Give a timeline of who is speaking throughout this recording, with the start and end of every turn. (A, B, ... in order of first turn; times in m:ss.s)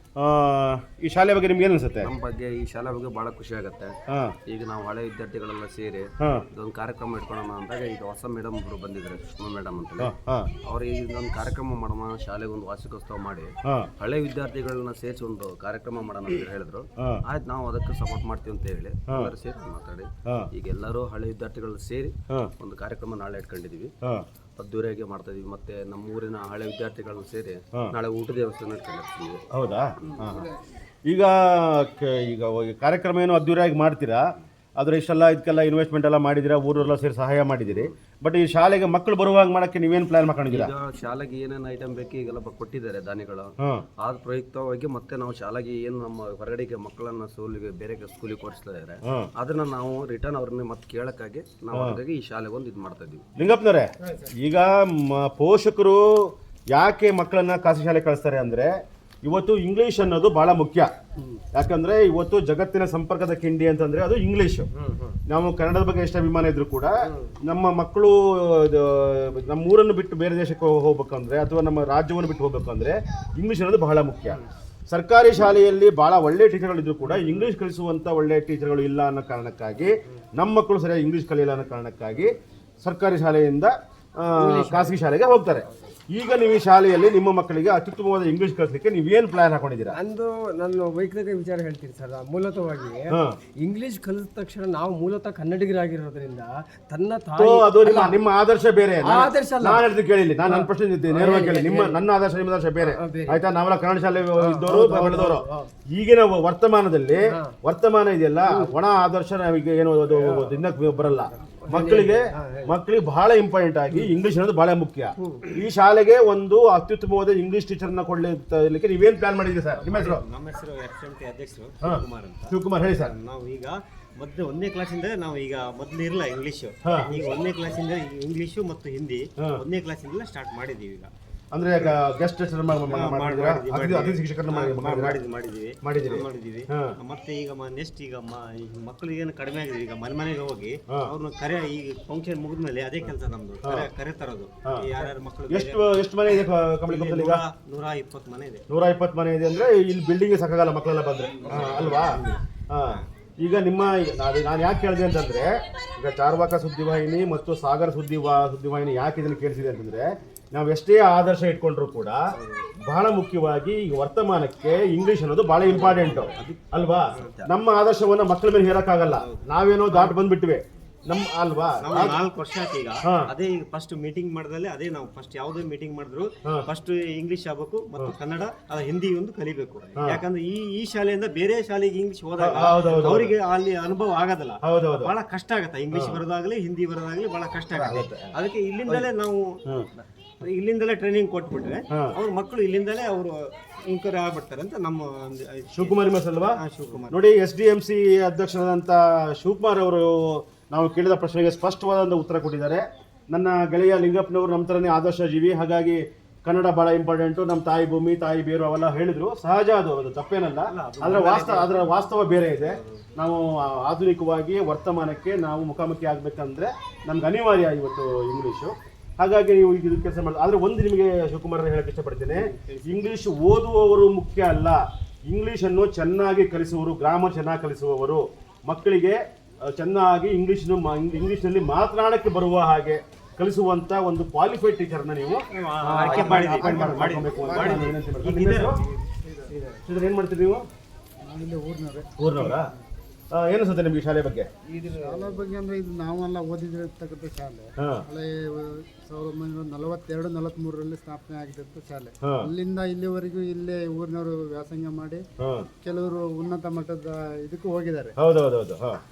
0:00.2-0:02.1 A
0:02.0-0:24.0 B
0:04.1-0:04.3 A
0:06.2-0:06.5 A
0:10.0-0:10.5 A
0:19.1-0:19.3 A
0:24.6-0:29.4 B
0:29.5-0:30.5 A
0:30.0-0:30.3 B
0:31.1-0:34.2 A
0:34.8-0:40.7 A
0:37.6-0:38.0 B
0:40.5-0:53.3 B
0:51.7-0:52.0 A
0:53.4-1:00.9 A
1:01.5-1:04.7 A
1:04.9-1:05.2 C
1:05.3-1:30.0 A
1:17.1-1:17.4 C
1:24.4-1:25.0 C
1:29.9-1:38.2 C
1:33.1-1:33.4 A
1:37.4-2:00.2 A
1:39.0-1:39.9 C
1:40.4-1:42.0 C
1:42.8-1:43.4 C
1:44.4-1:45.7 C
1:47.3-1:47.6 C
1:48.5-1:48.8 C
1:50.1-1:50.6 C
1:51.4-1:52.8 C
1:55.2-1:55.5 C
1:59.8-2:11.1 D
2:01.8-2:03.2 A
2:06.8-2:07.3 A
2:09.4-2:09.6 A
2:11.5-2:15.3 A
2:12.8-2:28.6 D
2:15.8-2:17.0 A
2:23.6-2:23.9 A
2:24.6-2:25.0 A
2:25.5-2:27.4 A
2:28.7-2:42.2 A
2:31.4-2:32.2 D
2:42.8-2:52.3 A
2:45.6-2:47.5 B
2:49.1-2:50.2 D
2:51.8-3:17.2 D
2:53.0-2:53.3 A
3:00.0-3:00.3 A
3:02.4-3:03.4 A
3:04.6-3:05.1 A
3:05.9-3:06.2 A
3:07.8-3:08.3 A
3:11.9-3:12.2 A
3:15.7-3:58.8 A
3:30.7-3:31.8 D
3:32.6-3:33.0 D
3:42.4-3:43.0 D
3:55.6-3:58.8 D
3:56.6-3:57.9 E
3:59.8-4:00.6 A
4:01.3-4:02.6 E
4:02.2-4:02.7 A
4:03.3-4:04.5 A
4:04.7-4:05.4 C
4:04.9-4:15.2 E
4:12.2-4:12.5 A
4:15.4-4:15.7 A
4:15.8-4:18.2 E
4:18.2-4:19.0 A